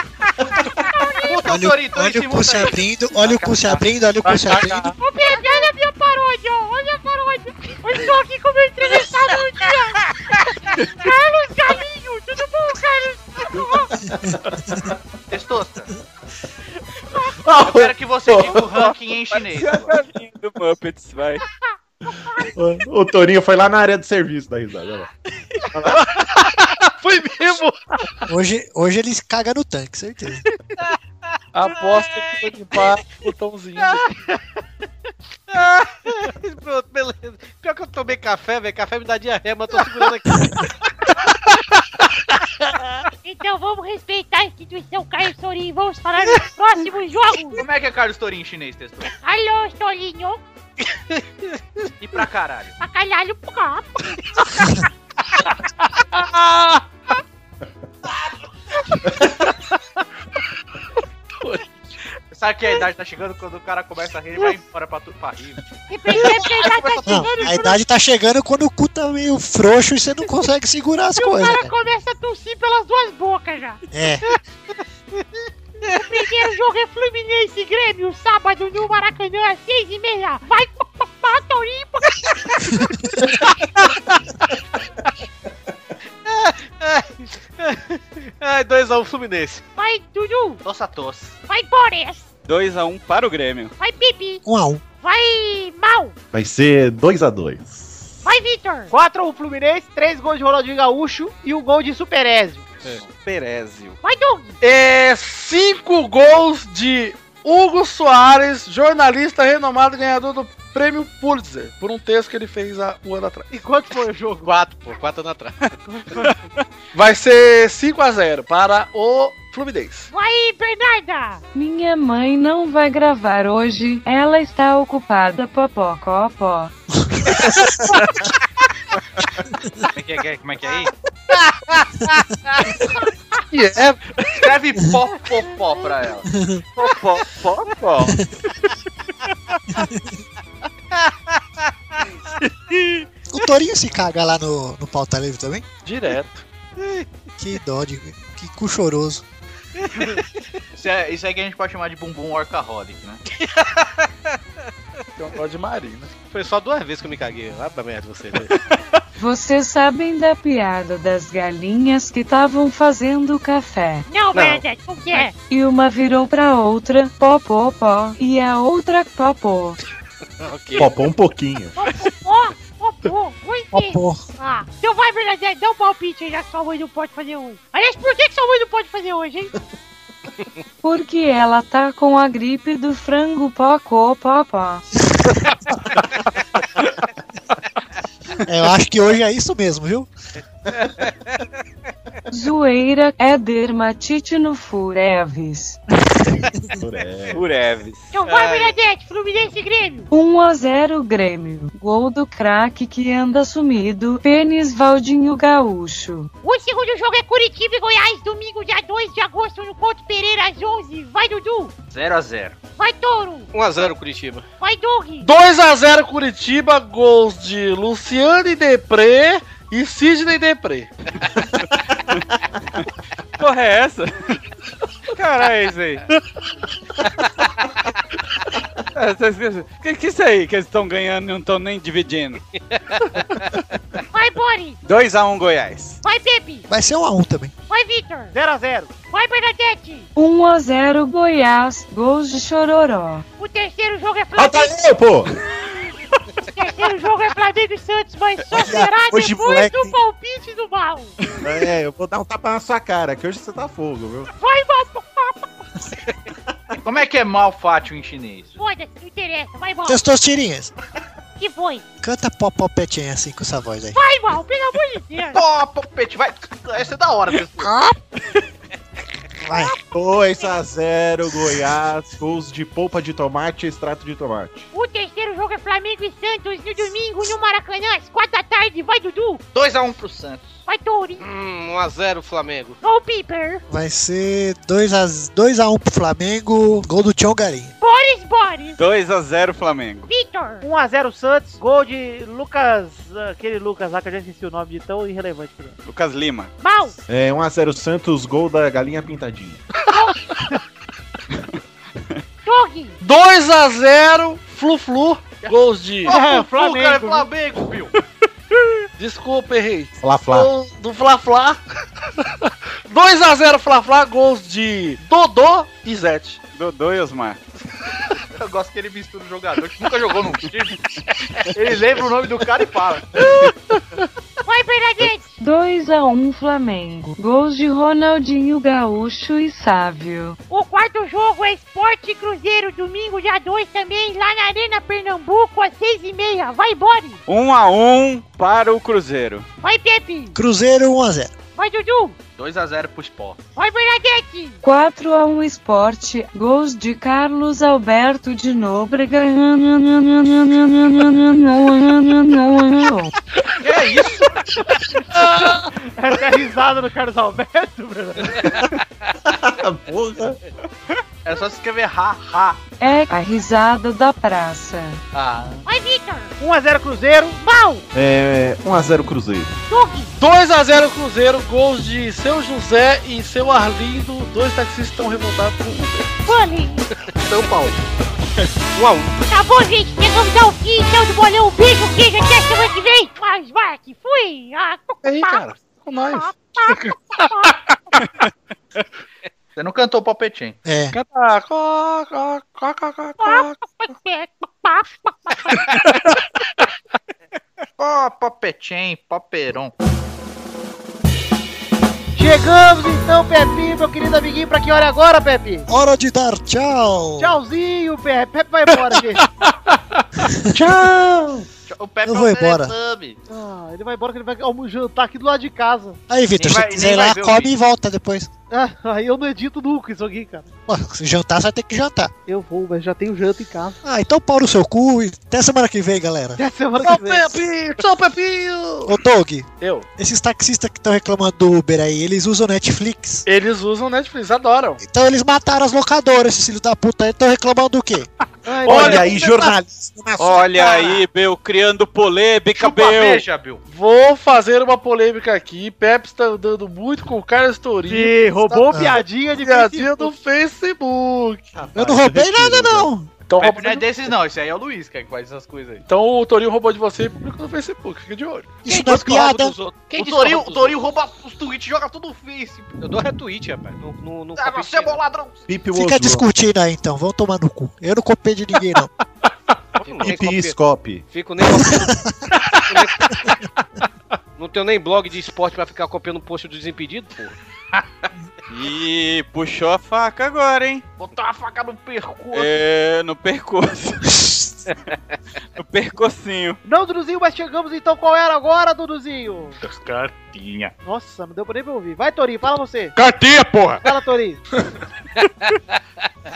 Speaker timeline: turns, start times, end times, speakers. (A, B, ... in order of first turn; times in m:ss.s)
0:00.7-0:01.4 A
0:01.2-0:03.8 B
0:01.5-0:04.9 C
0:04.2-0:05.0 D
0:05.0-0:10.0 A
0:10.9-0:13.9 A
0:14.1-0:14.9 E
0:15.3-0:15.9 B
0:17.3-0:18.9 E
0:17.6-0:19.9 B
0:19.3-0:21.4 F
0:22.5-0:25.1 E
0:25.7-0:26.1 E
0:26.0-0:28.2 D
0:28.3-0:30.4 C
0:31.5-0:34.1 D
0:31.9-0:32.8 F
0:35.5-0:40.6 G
0:43.2-0:47.6 A
0:47.5-0:49.1 B
0:49.2-0:50.4 A
0:52.0-0:52.8 B
0:52.8-0:54.2 A
0:55.4-0:56.8 D
0:58.9-0:59.5 D
1:01.4-1:02.0 D
1:02.3-1:07.7 B
1:05.9-1:07.8 A
1:06.2-1:06.7 D
1:07.0-1:11.7 C
1:11.1-1:13.8 A
1:13.9-1:14.2 C
1:15.8-1:22.7 A
1:26.2-1:29.6 G
1:29.8-1:30.6 A
1:30.6-1:31.3 B
1:31.5-1:32.3 A
1:32.4-1:33.7 F
1:33.8-1:34.4 A
1:34.4-1:34.8 C
1:35.0-1:36.1 A
1:36.3-1:38.2 E
1:38.2-1:38.9 A
1:38.9-1:42.6 H
1:42.8-1:44.0 F
1:44.0-1:44.6 A
1:44.6-1:53.5 D
1:53.5-1:54.5 H
1:54.4-1:55.6 G
1:55.9-1:56.4 H
1:56.9-2:00.1 D
2:00.1-2:01.4 A
2:01.5-2:06.7 I
2:07.1-2:07.7 C
2:09.9-2:10.9 B
2:11.3-2:11.7 D
2:13.5-2:14.4 D
2:14.3-2:16.2 B
2:16.3-2:16.6 C
2:16.8-2:18.2 F
2:19.7-2:20.1 C
2:23.3-2:25.6 C
2:25.8-2:26.4 D
2:27.4-2:29.2 C
2:30.8-2:33.2 B
2:33.4-2:34.0 G
2:35.2-2:36.1 D
2:36.3-2:38.6 G
2:39.2-2:44.1 I
2:44.0-2:45.3 A
2:44.3-2:44.6 G
2:45.4-2:49.8 I
2:50.4-2:50.9 G
2:50.7-2:51.7 E
2:51.8-2:59.5 A
2:53.7-2:54.2 C
3:00.8-3:04.8 I
3:08.4-3:10.1 C
3:12.3-3:15.8 I
3:16.8-3:17.4 E
3:17.3-3:18.1 F
3:18.1-3:20.1 A
3:18.2-3:18.7 G
3:20.1-3:26.3 I
3:26.4-3:31.7 A
3:31.9-3:32.6 B
3:32.8-3:33.5 A
3:33.5-3:34.4 G
3:34.6-3:35.3 A
3:35.2-3:40.9 D
3:43.4-3:44.4 F
3:45.1-3:46.0 F
3:48.9-3:52.4 F
3:52.7-3:53.5 G
3:54.1-3:54.8 A
3:54.8-3:56.0 F
3:56.0-3:56.7 A
3:56.7-3:57.5 C
3:57.7-3:58.3 A
3:58.3-3:58.9 H
3:59.1-4:00.1 A
4:00.2-4:03.2 I
4:03.4-4:04.7 A
4:04.3-4:05.4 E
4:06.5-4:11.2 A
4:08.5-4:09.9 C
4:11.4-4:14.3 E
4:14.4-4:15.5 A
4:16.8-4:18.6 B
4:18.6-4:20.0 A
4:19.9-4:20.7 C
4:21.4-4:21.8 A
4:22.0-4:24.0 C
4:23.9-4:25.4 A
4:25.3-4:27.7 B
4:29.4-4:29.8 C
4:29.5-4:29.8 A
4:29.9-4:34.7 E
4:34.7-4:39.4 A
4:39.5-4:40.6 B
4:40.6-4:41.2 A
4:41.2-4:42.8 G
4:42.8-4:43.6 A
4:43.7-4:47.7 C
4:47.8-4:48.8 A
4:48.8-4:50.1 F
4:50.1-4:50.6 A
4:50.6-4:55.8 H
4:55.8-4:56.5 F
4:56.6-4:57.0 A
4:57.1-4:59.6 E
5:02.4-5:03.0 A
5:03.0-5:06.1 D
5:05.4-5:07.9 B
5:06.0-5:07.3 H
5:09.0-5:11.6 D
5:10.0-5:10.5 E
5:12.2-5:16.4 D
5:16.5-5:17.4 F
5:18.3-5:20.8 B
5:21.4-5:23.3 B
5:23.2-5:24.0 D
5:24.4-5:25.3 A
5:25.4-5:30.4 I
5:30.5-5:37.2 A
5:37.3-5:39.4 F
5:39.6-5:40.4 A
5:40.3-5:41.3 C
5:41.6-5:42.2 A
5:42.4-5:43.4 B
5:43.6-5:44.6 A
5:44.6-5:53.1 I
5:53.6-5:54.5 B
5:55.2-5:58.5 H
5:59.2-6:00.4 E
6:01.2-6:02.6 B
6:02.8-6:05.0 I
6:05.1-6:05.6 B
6:05.6-6:06.3 A
6:06.4-6:07.4 H
6:07.4-6:07.8 A
6:07.9-6:09.6 E
6:09.7-6:10.1 A
6:10.2-6:16.1 D
6:16.2-6:16.9 A
6:17.3-6:17.7 G
6:18.7-6:19.1 G
6:19.2-6:25.4 A
6:25.0-6:28.0 D
6:26.1-6:27.5 A
6:29.6-6:30.6 B
6:30.6-6:31.0 C
6:30.9-6:33.6 D
6:33.2-6:35.4 A
6:35.5-6:36.2 D
6:37.8-6:39.7 B
6:42.2-6:45.7 H
6:45.7-6:47.4 C
6:47.2-6:49.2 H
6:49.2-6:50.2 D
6:50.3-6:50.8 C
6:50.6-6:51.4 E
6:51.7-6:53.2 B
6:52.0-6:52.7 C
6:53.3-6:56.0 H
6:56.1-6:58.3 C
6:56.4-6:57.5 B
6:58.5-7:00.5 H
7:00.7-7:02.1 C
7:02.3-7:03.8 H
7:03.8-7:06.4 C
7:06.4-7:07.4 H
7:06.8-7:09.0 D
7:08.8-7:13.2 C
7:09.6-7:09.8 D
7:13.2-7:14.8 D
7:14.8-7:18.1 C
7:18.4-7:19.4 H
7:18.6-7:20.7 E
7:18.6-7:19.8 C
7:20.2-7:23.3 F
7:20.6-7:21.0 B
7:22.5-7:23.6 B
7:23.7-7:28.8 D
7:27.9-7:30.1 H
7:28.7-7:29.0 C
7:29.4-7:31.4 D
7:31.5-7:32.9 E
7:31.7-7:33.1 C
7:33.3-7:33.9 D
7:33.4-7:35.8 B
7:35.9-7:38.6 D
7:38.6-7:39.6 C
7:38.6-7:40.7 G
7:39.9-7:42.7 B
7:42.8-7:45.0 G
7:44.4-7:45.5 B
7:45.5-7:46.2 E
7:45.7-7:48.9 C
7:49.8-7:50.6 G
7:50.0-7:51.0 E
7:51.1-7:51.9 G
7:51.6-7:52.2 C
7:52.6-7:53.1 G
7:54.4-7:57.3 G
7:58.5-8:00.8 F
8:01.0-8:02.6 B
8:02.3-8:04.4 F
8:05.6-8:06.6 F
8:06.6-8:09.6 H
8:09.8-8:10.7 B
8:09.9-8:10.1 D
8:10.8-8:13.0 H
8:13.8-8:14.4 H